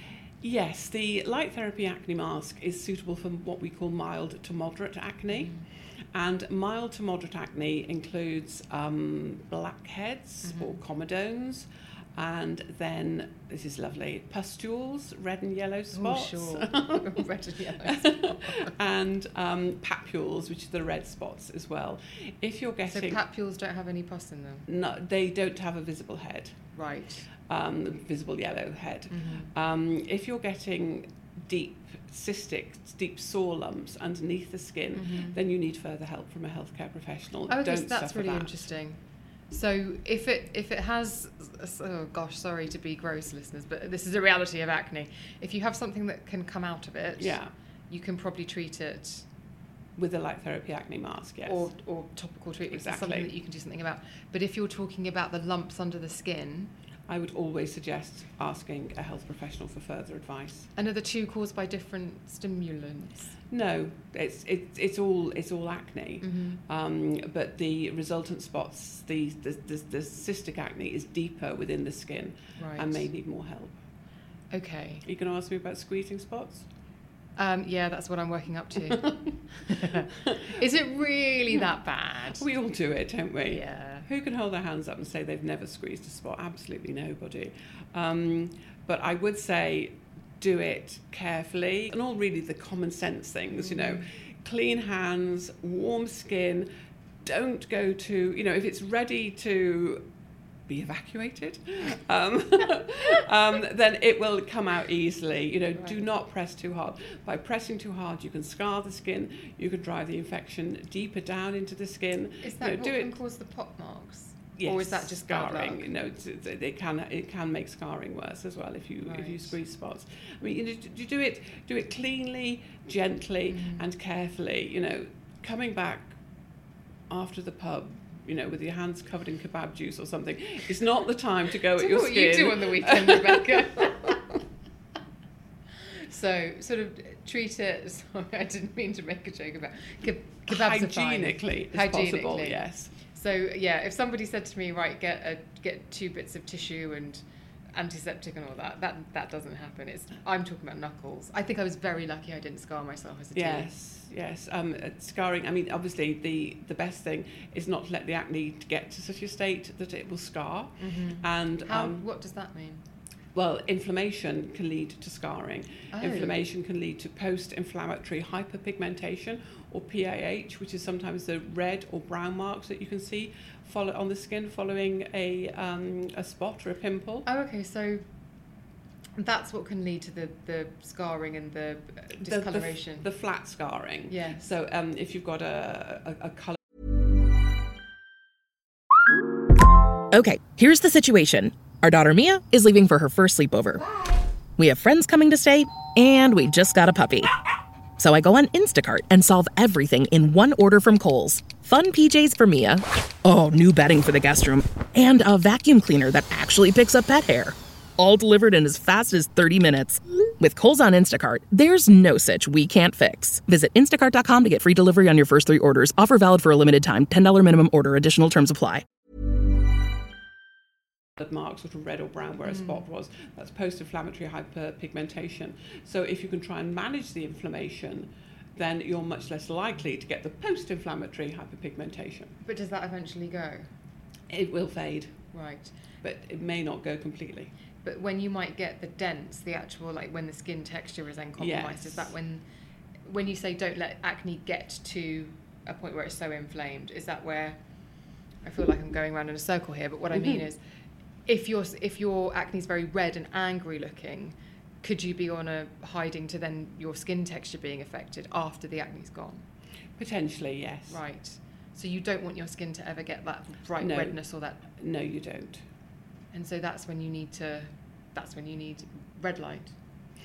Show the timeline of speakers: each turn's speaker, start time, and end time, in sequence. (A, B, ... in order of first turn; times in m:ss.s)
0:00.4-0:17.2 A
0:05.3-0:05.6 B
0:10.4-0:10.8 B
0:15.9-0:18.8 B
0:17.8-0:23.2 A
0:22.9-0:24.6 B
0:24.7-0:26.6 A
0:26.7-0:27.3 B
0:27.5-0:38.6 A
0:29.1-0:29.5 B
0:34.9-0:35.4 B
0:37.5-0:47.4 B
0:47.2-0:47.5 A
0:47.9-0:49.2 B
0:50.0-0:51.7 A
0:51.4-0:56.7 B
0:52.7-0:53.3 A
0:57.1-1:00.7 A
1:00.8-1:03.4 B
1:03.5-1:13.8 A
1:06.2-1:06.6 B
1:12.6-1:13.1 B
1:14.5-1:15.0 B
1:15.0-1:16.6 A
1:17.4-1:22.4 B
1:19.0-1:19.3 A
1:22.4-1:36.7 A
1:23.5-1:24.0 B
1:33.6-1:34.0 B
1:37.2-1:40.0 A
1:40.7-1:53.2 A
1:52.4-1:55.9 B
1:54.6-2:06.2 A
1:59.0-1:59.5 B
2:03.5-2:03.9 B
2:07.1-2:14.1 A
2:11.7-2:14.2 B
2:15.9-2:27.2 B
2:20.5-2:22.9 A
2:27.7-2:33.7 B
2:33.3-2:42.0 A
2:40.8-2:42.8 B
2:43.3-2:57.2 A
2:45.9-2:46.4 B
2:57.2-2:58.0 B
2:59.2-3:03.1 B
3:02.2-3:06.6 A
3:04.1-3:04.4 B
3:10.1-3:13.8 C
3:14.6-3:17.3 C
3:18.0-3:38.8 C
3:41.2-3:52.3 A
3:42.4-3:42.8 B
3:52.4-3:53.7 B
3:54.3-3:55.2 A
3:55.3-3:55.7 B
3:56.0-3:57.5 A
3:57.8-4:02.4 B
4:01.4-4:02.1 A
4:03.0-4:07.6 B
4:08.4-4:10.6 B
4:10.1-4:10.4 A
4:11.2-4:19.4 B
4:20.0-4:21.0 A
4:20.9-4:24.6 B
4:23.8-4:24.2 A
4:24.8-4:25.6 A
4:26.3-4:29.7 B